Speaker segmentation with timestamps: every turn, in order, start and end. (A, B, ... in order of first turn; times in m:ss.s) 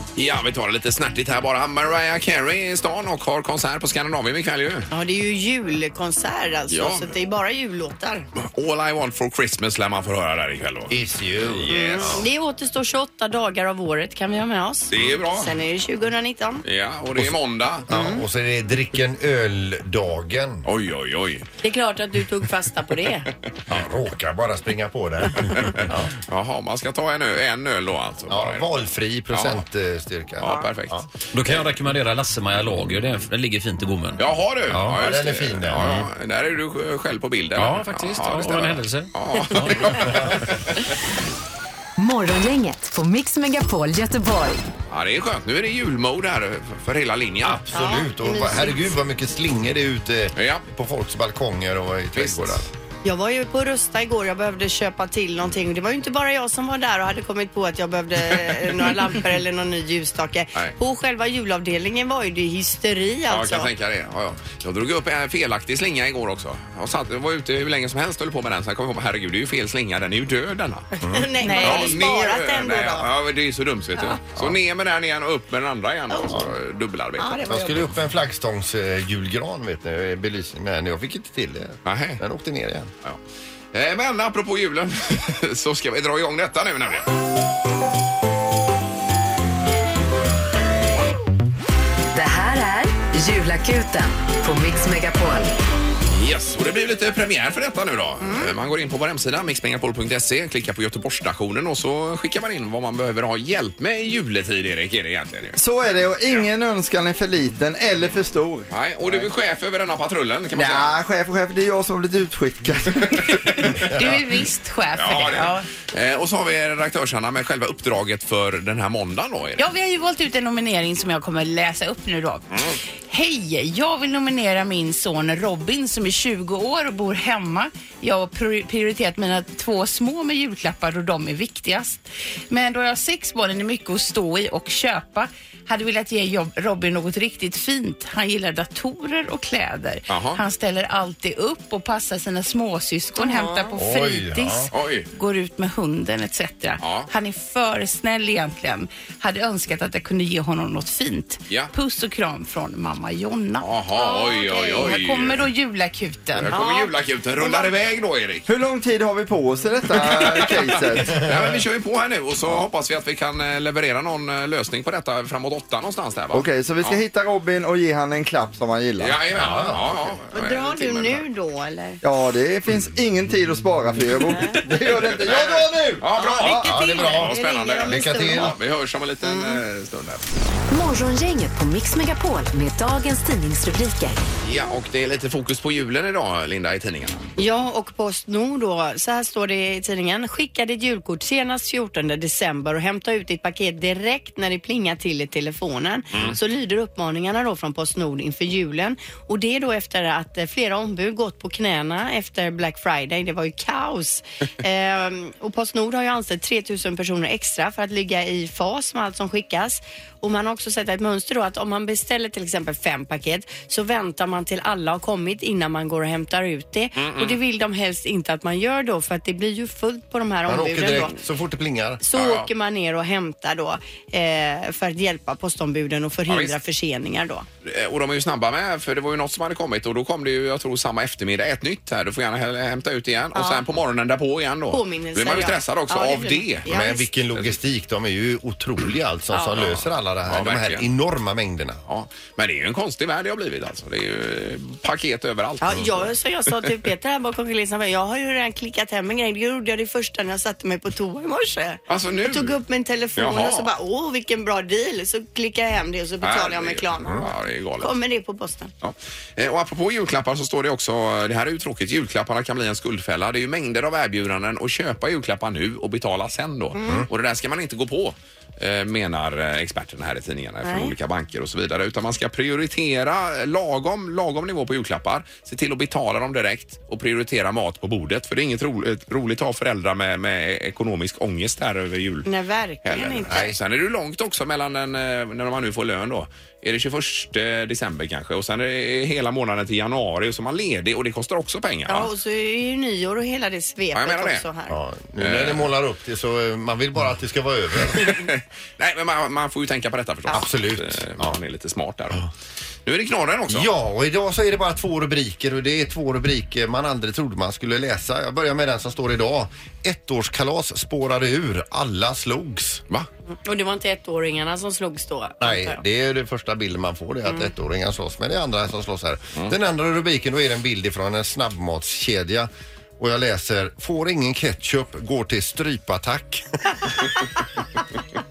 0:00.2-0:04.9 A
0:04.9-0:08.3 B
0:06.7-0:07.1 A
0:08.4-0:12.2 A
0:10.9-0:12.2 C
0:11.7-0:16.6 B
0:14.9-0:15.5 A
0:16.6-0:17.8 A
0:17.9-0:20.6 C
0:17.9-0:18.2 B
0:20.6-0:21.5 A
0:21.6-0:23.3 B
0:23.7-0:26.1 C
0:25.7-0:28.7 A
0:28.3-0:31.0 C
0:29.3-0:29.6 A
0:30.4-0:31.0 A
0:31.3-0:34.2 D
0:34.2-0:40.6 A
0:34.7-0:36.1 C
0:37.6-0:40.0 D
0:39.7-0:40.4 C
0:42.0-0:44.6 E
0:44.9-0:47.7 A
0:47.5-0:52.7 C
0:47.7-0:48.8 B
0:50.4-0:50.6 A
0:52.1-0:52.6 A
0:53.0-1:03.7 B
1:03.3-1:10.9 A
1:11.0-1:11.3 C
1:11.0-1:13.1 B
1:11.4-1:11.9 F
1:11.4-1:17.4 A
1:17.2-1:17.8 B
1:17.4-1:22.9 C
1:21.8-1:22.2 A
1:23.7-1:27.1 A
1:32.1-1:35.5 E
1:36.1-1:45.6 A
1:45.6-1:49.3 G
1:48.7-1:50.9 A
1:50.5-1:53.6 G
1:53.5-1:53.9 A
1:53.9-1:55.7 F
1:54.9-1:59.7 A
1:59.6-2:02.4 F
2:02.5-2:02.8 A
2:03.1-2:36.5 F
2:20.1-2:20.4 A
2:23.2-2:23.7 B
2:23.8-2:24.7 C
2:24.7-2:25.1 A
2:26.8-2:27.1 A
2:33.6-2:35.5 A
2:36.3-2:38.5 A
2:36.5-2:37.7 B
2:38.5-2:41.6 G
2:40.0-2:47.0 A
2:46.3-2:49.2 G
2:49.0-2:51.2 A
2:49.3-2:50.1 C
2:50.3-2:52.0 B
2:52.0-2:56.0 G
2:54.6-2:58.6 C
2:55.2-3:00.2 A
2:56.2-2:58.5 B
2:59.2-2:59.6 B
3:00.7-3:04.2 E
3:04.4-3:07.2 A
3:07.4-3:41.1 B
3:37.0-3:37.4 A
3:40.4-3:42.0 C
3:42.0-3:47.4 B
3:42.1-3:42.5 A
3:46.3-3:46.6 A
3:47.6-3:56.7 A
3:53.3-3:53.6 B
3:54.7-3:57.1 B
3:56.7-4:01.8 C
3:59.3-3:59.6 B
3:59.6-4:00.9 A
4:01.9-4:06.1 A
4:05.6-4:18.7 B
4:11.9-4:12.6 A
4:13.2-4:13.7 A
4:16.2-4:17.9 A
4:18.8-4:42.3 A
4:26.8-4:27.0 B
4:30.6-4:30.9 B
4:42.2-4:43.5 B
4:42.8-4:52.1 A
4:43.3-4:43.6 C
4:51.9-4:54.8 B
4:53.9-4:54.4 A
4:54.7-4:58.2 C
4:55.2-4:55.7 A
4:57.9-5:02.3 A
5:00.3-5:01.4 C
5:02.8-5:03.7 A
5:03.5-5:12.8 C
5:13.4-5:15.8 B
5:15.4-5:27.0 C
5:17.2-5:17.5 B